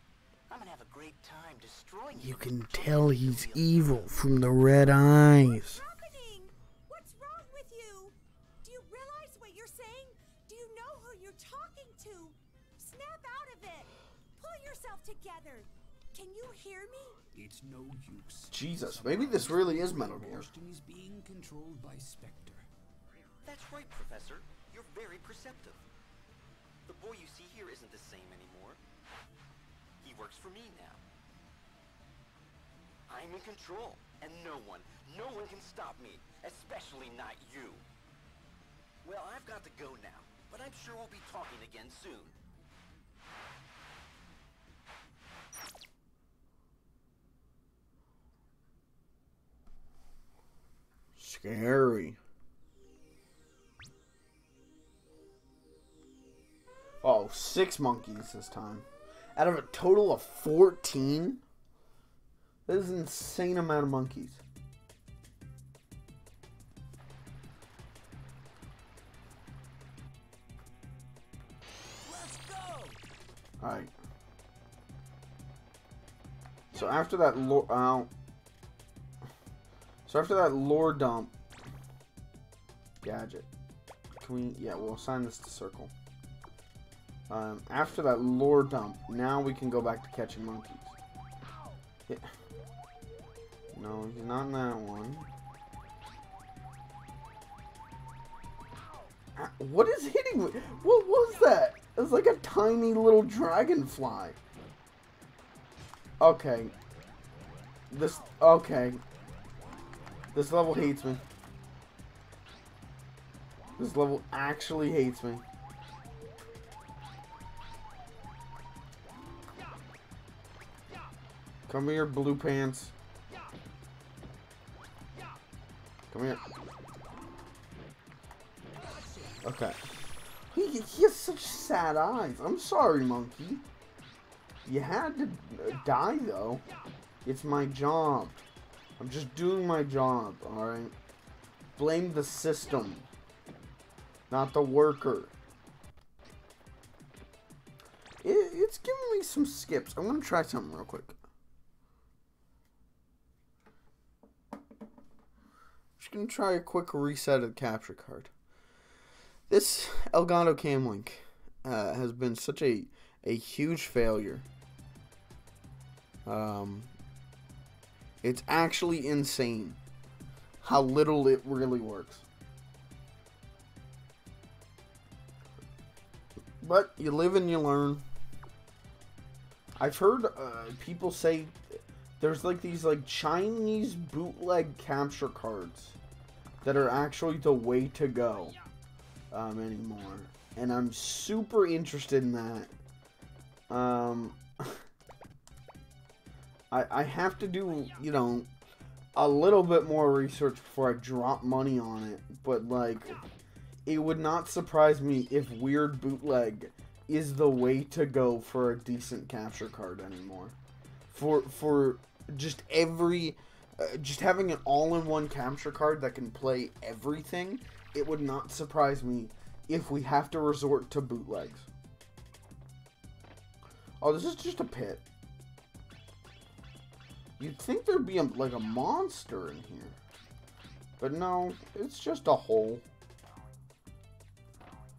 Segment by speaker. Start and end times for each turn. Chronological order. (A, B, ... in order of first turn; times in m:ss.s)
0:00.5-0:04.4 A
0:02.1-0:05.8 B
0:05.4-0:17.2 C
0:17.3-0:22.7 D
0:18.5-0:20.5 B
0:23.4-0:25.8 A
0:26.9-0:28.8 A
0:30.0-0:31.0 A
0:33.1-0:37.8 A
0:39.0-0:42.4 A
0:51.2-0:52.2 B
0:57.0-1:01.4 B
1:02.7-1:04.4 B
1:12.0-1:13.0 D
1:13.6-1:13.9 B
1:16.7-1:18.1 B
1:20.1-1:21.3 B
1:23.0-1:23.5 B
1:24.2-1:25.9 B
1:27.3-1:31.0 B
1:33.7-1:35.3 B
1:39.4-1:44.4 B
1:46.2-1:46.7 B
1:47.9-1:49.0 B
1:50.3-1:51.2 B
1:53.8-1:55.4 B
2:01.7-2:02.9 B
2:06.1-2:06.4 B
2:09.4-2:09.8 B
2:10.5-2:13.6 B
2:14.7-2:16.6 B
2:17.2-2:18.4 B
2:19.0-2:20.9 B
2:21.8-2:23.1 B
2:24.3-2:25.3 B
2:28.2-2:31.2 B
2:36.0-2:38.3 B
2:39.5-2:44.4 B
2:46.3-2:46.9 B
2:48.2-2:49.8 B
2:50.6-2:52.2 B
2:56.6-2:58.0 B
2:59.8-3:06.0 B
3:06.6-3:08.6 B
3:09.3-3:12.7 B
3:13.7-3:14.8 B
3:16.7-3:18.5 B
3:19.2-3:23.2 B
3:23.9-3:30.5 B
3:31.1-3:41.7 B
3:44.0-3:45.0 B
3:47.4-3:50.0 B
3:51.0-3:52.8 B